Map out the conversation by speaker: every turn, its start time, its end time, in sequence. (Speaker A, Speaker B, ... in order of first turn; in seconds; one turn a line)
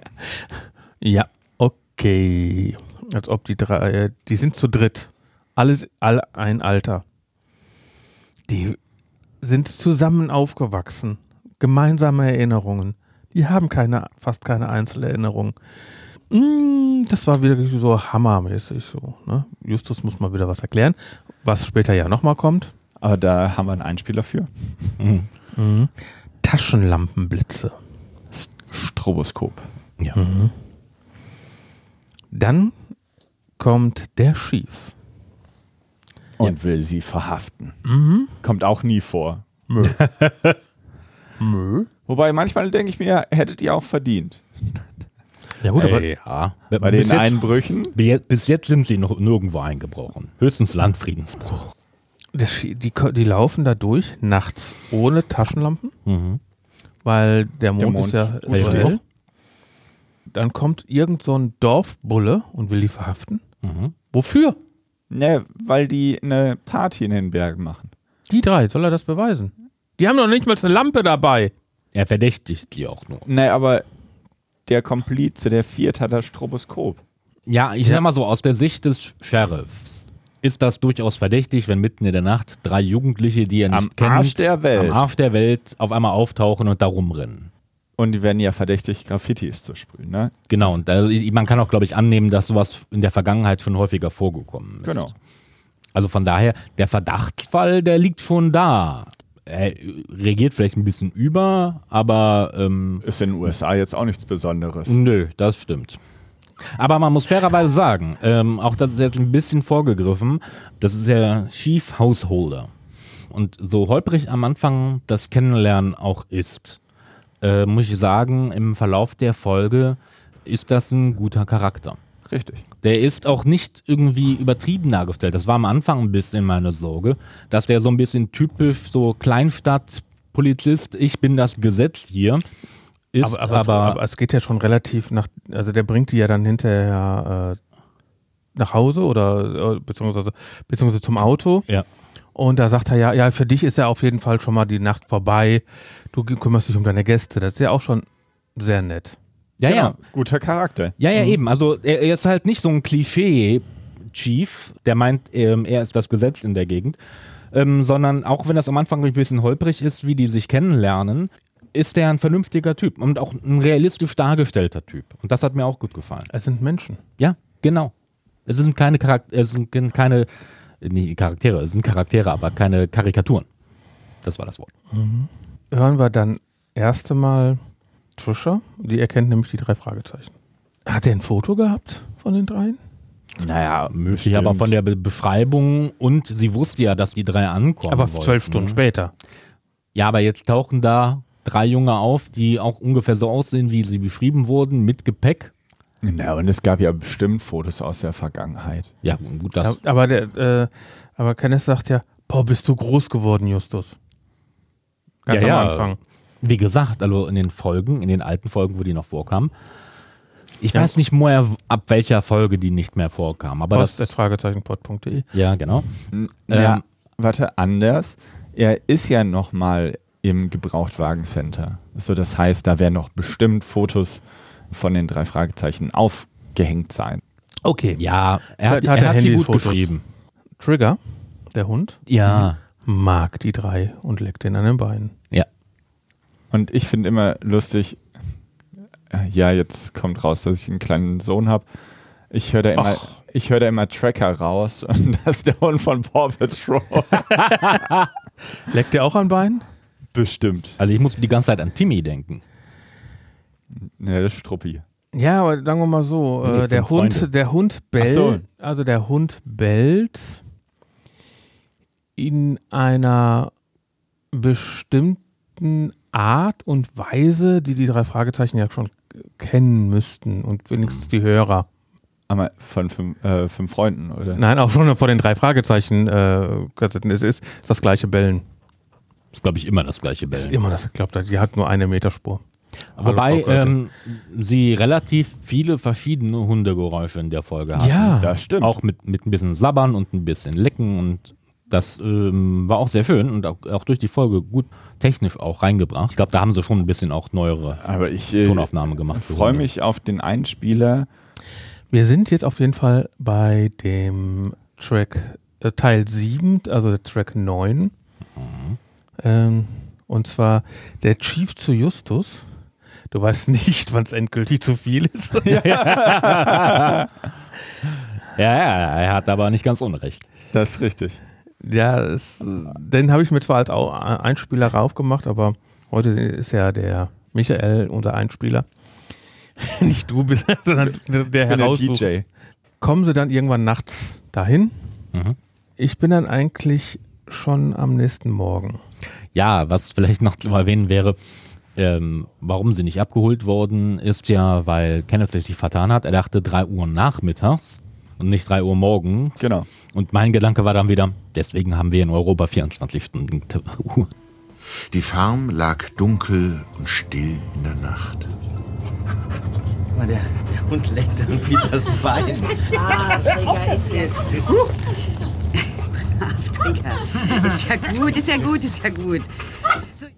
Speaker A: 1.0-7.0
Speaker A: 8.5-8.8
Speaker A: 9.4-15.5
Speaker A: 16.3-22.7
Speaker B: 23.0-24.9
Speaker C: 25.0-25.3
Speaker A: 25.5-25.9
Speaker A: 26.4-27.8
Speaker B: 28.3-29.7
Speaker A: 30.1-30.5
Speaker A: 32.3-32.8
Speaker A: 33.6-34.9
Speaker B: 36.4-37.8
Speaker A: 37.8-38.3
Speaker B: 38.4-39.4
Speaker A: 39.7-40.0
Speaker C: 40.0-40.5
Speaker A: 41.4-41.9
Speaker B: 42.1-44.9
Speaker A: 45.6-46.2
Speaker C: 45.7-51.7
Speaker B: 46.8-48.0
Speaker A: 52.3-55.9
Speaker C: 56.0-56.4
Speaker A: 57.0-59.0
Speaker B: 57.8-59.0
Speaker C: 58.5-59.0
Speaker A: 60.3-63.4
Speaker C: 63.6-63.9
Speaker A: 64.1-64.6
Speaker B: 65.1-67.9
Speaker A: 68.3-71.5
Speaker C: 71.9-73.2
Speaker B: 73.2-73.8
Speaker B: 74.7-77.0
Speaker C: 77.5-87.5
Speaker B: 83.7-85.1
Speaker B: 88.0-90.8
Speaker C: 90.5-95.1
Speaker B: 94.8-95.1
Speaker C: 95.9-103.0
Speaker B: 103.0-105.0
Speaker C: 104.8-106.0
Speaker C: 106.7-112.7
Speaker C: 113.3-116.8
Speaker C: 117.4-122.0
Speaker B: 122.2-122.6
Speaker C: 122.8-132.4
Speaker C: 133.1-134.0
Speaker A: 133.2-137.6
Speaker A: 138.6-141.7
Speaker A: 142.3-149.2
Speaker C: 149.6-149.9
Speaker B: 149.6-151.0
Speaker C: 151.0-157.0
Speaker C: 157.5-166.3
Speaker A: 166.3-167.0
Speaker C: 167.2-167.9
Speaker C: 168.5-170.3
Speaker C: 170.8-173.5
Speaker C: 174.2-174.7
Speaker A: 174.9-177.6
Speaker A: 178.2-180.3
Speaker A: 180.8-182.8
Speaker B: 183.4-184.8
Speaker C: 183.9-188.8
Speaker A: 187.9-189.1
Speaker C: 189.9-195.5
Speaker B: 196.0-198.9
Speaker C: 199.0-199.8
Speaker A: 199.6-203.9
Speaker A: 205.2-206.0
Speaker C: 205.3-209.5
Speaker C: 210.6-214.1
Speaker A: 213.7-215.3
Speaker C: 215.3-215.9
Speaker B: 216.1-227.2
Speaker C: 216.5-216.8
Speaker A: 227.6-228.0
Speaker C: 228.0-230.0
Speaker A: 228.6-229.9
Speaker A: 230.6-231.0
Speaker A: 231.5-235.1
Speaker C: 232.1-232.6
Speaker B: 236.5-238.0
Speaker B: 239.1-241.7
Speaker B: 242.3-247.4
Speaker A: 248.6-249.6
Speaker B: 250.1-250.8
Speaker C: 250.8-252.4
Speaker B: 253.7-254.8
Speaker A: 255.1-260.4
Speaker C: 256.4-257.3
Speaker B: 258.0-258.4
Speaker A: 262.2-263.5
Speaker A: 264.3-271.7
Speaker B: 272.3-274.4
Speaker A: 274.3-278.4
Speaker C: 279.3-280.6
Speaker A: 280.3-282.4
Speaker C: 282.9-297.8
Speaker A: 283.0-283.8
Speaker A: 287.8-288.3
Speaker B: 288.2-288.8
Speaker B: 297.8-301.1
Speaker C: 298.4-299.6
Speaker A: 301.9-307.9
Speaker C: 308.4-308.8
Speaker A: 309.2-312.5
Speaker A: 313.1-315.9
Speaker B: 315.4-317.1
Speaker C: 315.5-317.0
Speaker C: 318.3-320.3
Speaker B: 320.5-321.2
Speaker A: 321.6-328.6
Speaker A: 329.6-332.1
Speaker B: 331.4-332.2
Speaker A: 332.8-334.8
Speaker A: 335.8-338.8
Speaker C: 339.3-341.2
Speaker C: 341.8-354.1
Speaker B: 349.4-349.7
Speaker D: 354.9-358.3
Speaker E: 360.0-362.3
Speaker F: 362.7-364.1
Speaker E: 362.8-363.6
Speaker F: 367.3-369.2